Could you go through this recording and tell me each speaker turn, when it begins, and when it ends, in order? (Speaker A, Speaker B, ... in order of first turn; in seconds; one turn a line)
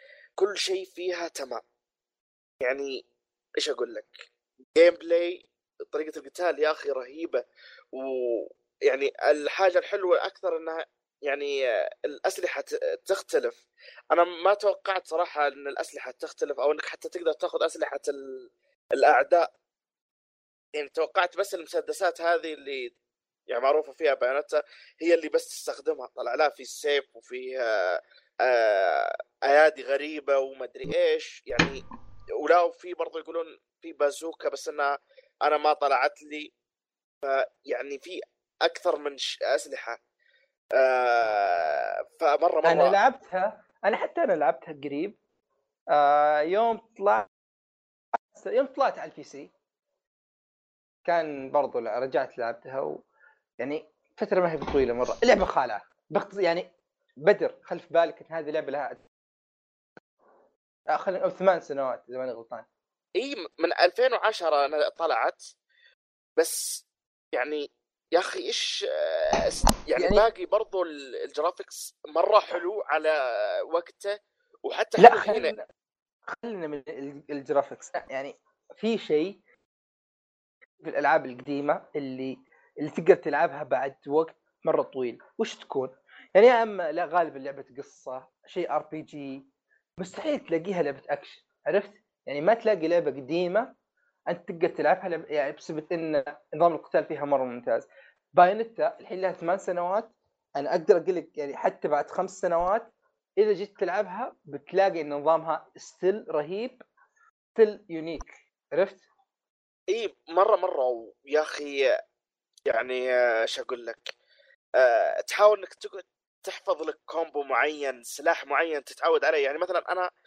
Speaker A: 0.4-1.6
Speaker A: 2.6-3.0
Speaker A: 3.6-4.1
Speaker A: 4.8-7.4
Speaker A: 7.9-11.5
Speaker A: 12.0-19.5
Speaker A: 20.7-22.9
Speaker A: 23.5-31.8
Speaker A: 32.4-34.9
Speaker A: 35.4-36.5
Speaker A: 37.2-40.0
Speaker A: 40.8-43.0
Speaker B: 42.6-45.1
Speaker B: 45.9-47.3
Speaker B: 48.3-49.5
Speaker B: 51.0-53.0
Speaker B: 53.6-56.7
Speaker B: 57.2-59.0
Speaker B: 60.9-62.6
Speaker A: 63.2-65.4
Speaker A: 66.4-66.8
Speaker A: 67.3-73.1
Speaker B: 70.0-70.2
Speaker A: 73.7-74.1
Speaker A: 74.7-75.5
Speaker B: 75.0-75.6
Speaker B: 76.3-79.4
Speaker B: 80.8-89.4
Speaker B: 90.0-93.7
Speaker B: 94.3-106.8
Speaker B: 107.5-109.0
Speaker A: 109.9-111.8
Speaker A: 112.7-114.1
Speaker A: 114.8-120.1